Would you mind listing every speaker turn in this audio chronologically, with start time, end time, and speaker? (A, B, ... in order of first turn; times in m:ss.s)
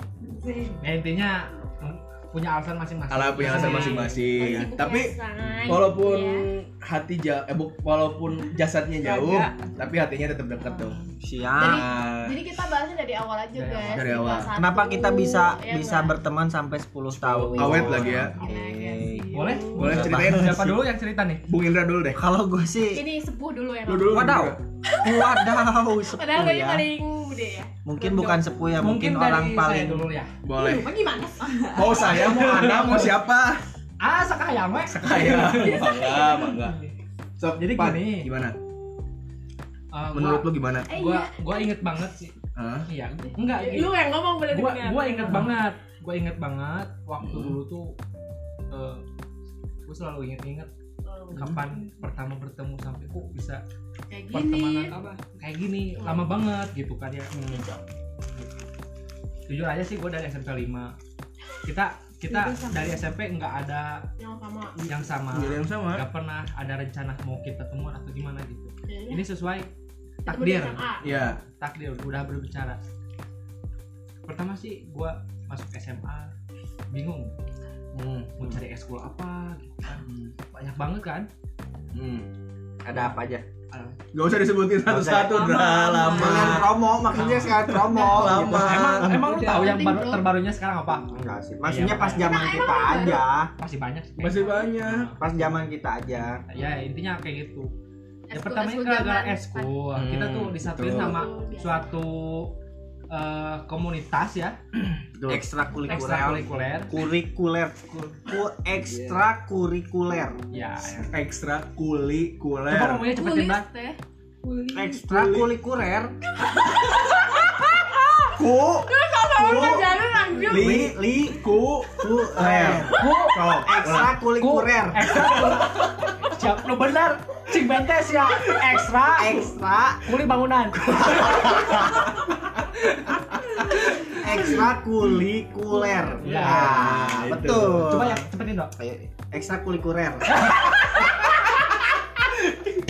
0:00.2-0:00.8 A
0:00.8-0:04.2 B
0:03.1-0:05.1 C
0:03.5-0:06.5 D
0:05.6-0:11.0 C
0:09.0-0:09.8 A
0:10.6-0:11.0 A
0:11.2-0:11.9 E
0:11.6-0:12.4 C
0:11.6-0:16.2 D
0:13.5-0:14.1 B
0:13.9-0:14.5 C
0:14.5-0:20.6 E
0:17.1-0:18.4 C
0:17.6-0:20.0 D
0:19.3-0:21.5 B
0:19.7-0:20.8 C
0:21.5-0:22.2 C
0:22.1-0:23.0 E
0:22.9-0:27.7 D
0:23.8-0:24.6 C
0:24.0-0:26.9 E
0:27.8-0:30.1 E
0:28.0-0:30.3 B
0:30.4-0:30.9 C
0:30.5-0:32.4 D
0:31.7-0:33.6 C
0:32.0-0:33.2 B
0:32.4-0:33.0 E
0:34.0-0:36.9 B
0:34.9-0:36.8 C
0:37.4-0:38.6 C
0:37.6-0:38.3 B
0:39.9-0:42.4 B
0:40.1-0:40.9 C
0:40.9-0:41.4 D
0:42.6-0:42.9 C
0:42.9-0:44.0 B
0:43.3-0:45.5 D
0:44.5-0:47.9 B
0:45.3-0:45.5 C
0:47.2-0:47.6 C
0:48.7-0:49.0 B
0:49.9-0:50.7 B
0:51.0-0:51.4 D
0:51.3-0:53.6 B
0:51.3-0:51.6 C
0:54.1-0:55.0 D
0:54.3-0:57.7 B
0:54.9-0:55.2 A
0:56.0-0:56.3 D
0:57.3-0:57.7 C
0:58.3-0:58.6 B
0:59.5-1:00.9 B
1:01.6-1:04.1 B
1:02.3-1:03.1 A
1:04.2-1:04.8 D
1:04.8-1:09.7 B
1:05.3-1:06.0 C
1:08.9-1:09.2 D
1:10.2-1:11.2 D
1:10.2-1:12.8 B
1:11.0-1:11.4 C
1:14.3-1:16.3 B
1:16.9-1:17.3 B
1:17.9-1:18.4 C
1:18.4-1:21.3 B
1:19.9-1:20.3 C
1:21.9-1:22.3 C
1:22.8-1:23.4 E
1:23.7-1:24.0 B
1:24.1-1:26.7 C
1:24.8-1:29.2 E
1:25.4-1:26.4 D
1:25.5-1:26.6 A
1:27.1-1:31.1 B
1:27.6-1:29.1 C
1:29.2-1:29.9 A
1:29.4-1:30.2 D
1:31.1-1:33.5 E
1:31.6-1:32.6 B
1:32.2-1:33.2 D
1:33.6-1:35.7 B
1:34.2-1:35.1 C
1:35.2-1:36.4 E
1:36.3-1:37.7 B
1:38.3-1:39.7 D
1:38.3-1:42.5 B
1:40.0-1:41.1 C
1:40.8-1:41.9 D
1:43.1-1:44.6 B
1:44.7-1:45.4 C
1:45.2-1:50.4 E
1:45.9-1:46.9 B
1:46.0-1:46.4 C
1:48.9-1:49.2 C
1:50.5-1:51.1 B
1:51.0-1:53.1 C
1:52.7-1:53.7 B
1:53.1-1:54.0 D
1:54.4-1:55.4 A
1:54.7-1:56.1 E
1:55.1-1:55.4 C
1:56.4-2:00.8 D
1:58.4-1:58.9 C
1:59.4-2:05.3 E
2:00.5-2:04.1 C
2:02.4-2:03.4 B
2:04.4-2:09.5 B
2:05.3-2:05.6 C
2:09.1-2:10.2 E
2:10.0-2:11.5 B
2:10.8-2:12.2 E
2:14.1-2:20.7 E
2:16.2-2:17.1 B
2:16.2-2:18.0 C
2:17.7-2:18.7 B
2:20.3-2:21.6 B
2:22.4-2:22.7 C